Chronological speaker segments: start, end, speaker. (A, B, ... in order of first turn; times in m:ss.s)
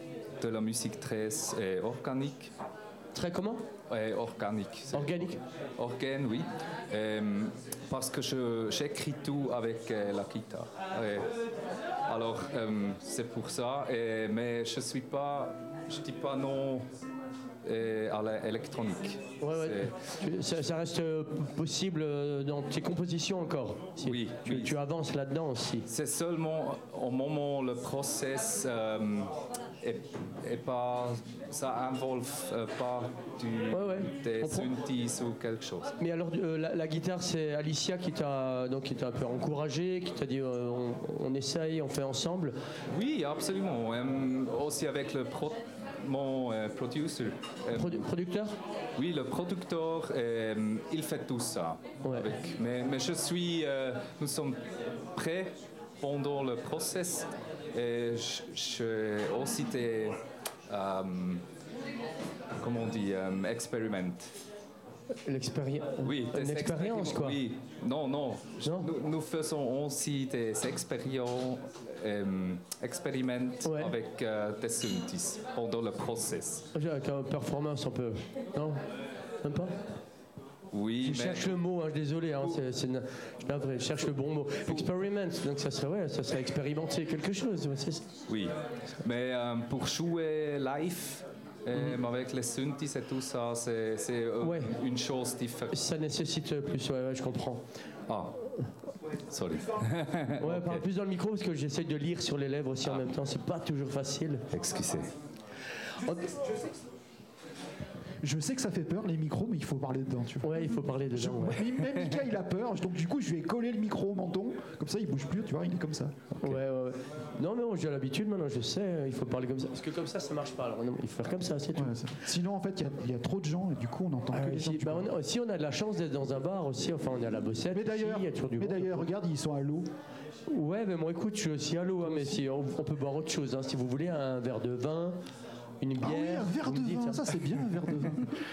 0:00.4-0:02.5 A
0:03.1-0:03.6 B
0:03.9-0:05.1 A
0:04.9-0:05.4 B
0:05.8-0:11.3 A
0:12.1-0:16.8 A
0:17.6-0:19.9 A
0:19.4-0:25.9 B
0:24.0-0:24.7 A
0:25.9-0:29.3 A
0:29.8-0:35.9 A
0:33.7-0:34.7 B
0:36.0-0:42.6 B
0:42.9-0:47.9 A
0:47.7-0:48.6 B
0:49.0-0:54.6 A
0:52.0-0:52.3 B
0:55.2-1:00.1 A
1:00.7-1:01.4 A
1:02.6-1:04.3 A
1:05.2-1:07.4 B
1:06.0-1:16.6 A
1:08.6-1:08.9 B
1:13.6-1:13.9 B
1:16.7-1:18.8 B
1:19.4-1:19.8 B
1:20.7-1:21.5 A
1:21.0-1:28.1 B
1:29.0-1:35.7 A
1:34.4-1:34.7 B
1:35.7-1:37.6 B
1:39.3-1:40.7 A
1:40.4-1:44.5 B
1:44.5-1:45.0 A
1:46.0-1:46.3 B
1:48.2-1:56.5 C
1:50.4-1:51.7 B
1:56.4-2:02.0 B
2:01.7-2:05.1 C
2:04.3-2:09.1 B
2:07.7-2:09.9 C
2:10.5-2:15.2 B
2:12.0-2:12.4 C
2:15.8-2:17.3 B
2:16.0-2:18.3 C